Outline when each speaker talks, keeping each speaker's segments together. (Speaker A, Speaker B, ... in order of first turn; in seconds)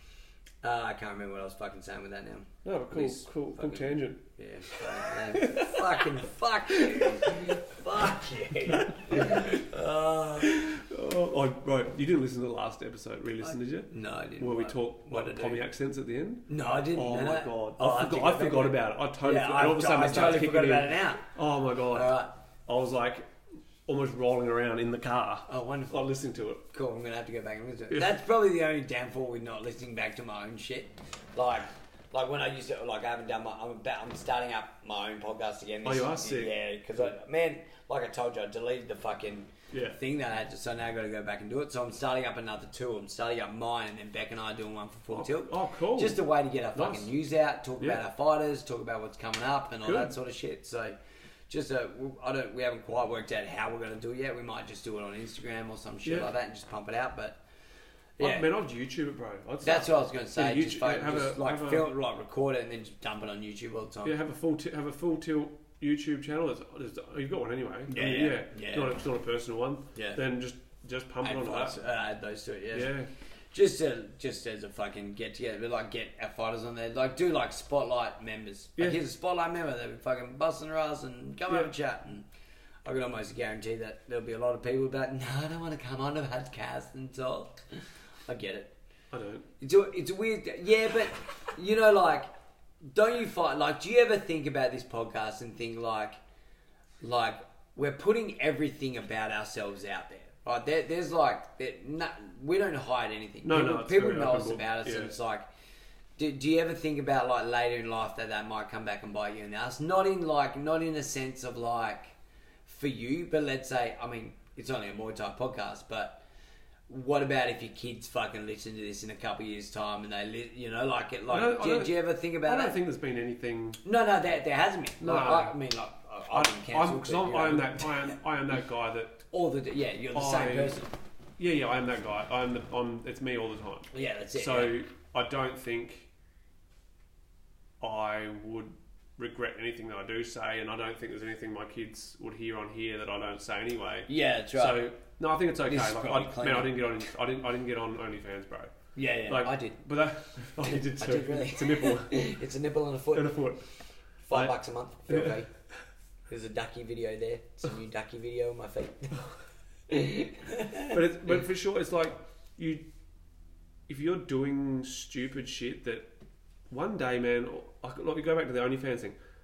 Speaker A: 0.6-10.6, 13.4-15.6, 16.5-21.2, 21.9-22.3, 25.5-26.1, 26.7-51.0, 51.5-57.4, 58.2-58.5, 59.6-64.2, 67.9-69.0, 70.0-70.2, 71.2-72.9, 73.5-82.2, 82.8-88.7, 89.6-92.3, 92.8-96.2, 97.0-105.5, 106.2-112.1, 112.7-116.2, 116.9-122.8, 123.8-128.1, 129.3-130.9, 133.9-134.8, 144.1-144.8, 145.7-146.8, 148.9-149.8, 150.7-153.4, 154.3-155.5, 156.3-159.1, 159.9-161.0
Speaker B: 2.6-6.2, 6.7-7.6, 8.7-9.6, 10.4-23.3, 23.9-26.6, 35.8-36.6, 39.7-40.0, 45.1-46.2, 46.7-47.1, 49.8-50.1, 56.0-56.3, 58.2-61.9, 64.0-71.8, 72.7-73.1, 89.1-89.5, 103.4-105.1, 121.3-123.8, 125.0-125.6, 126.3-129.2, 130.1-130.8, 131.4-136.1, 137.8-148.7, 149.3-152.3, 153.1-153.6, 155.1-155.4, 160.9-162.8, 163.9-166.1, 166.7-169.2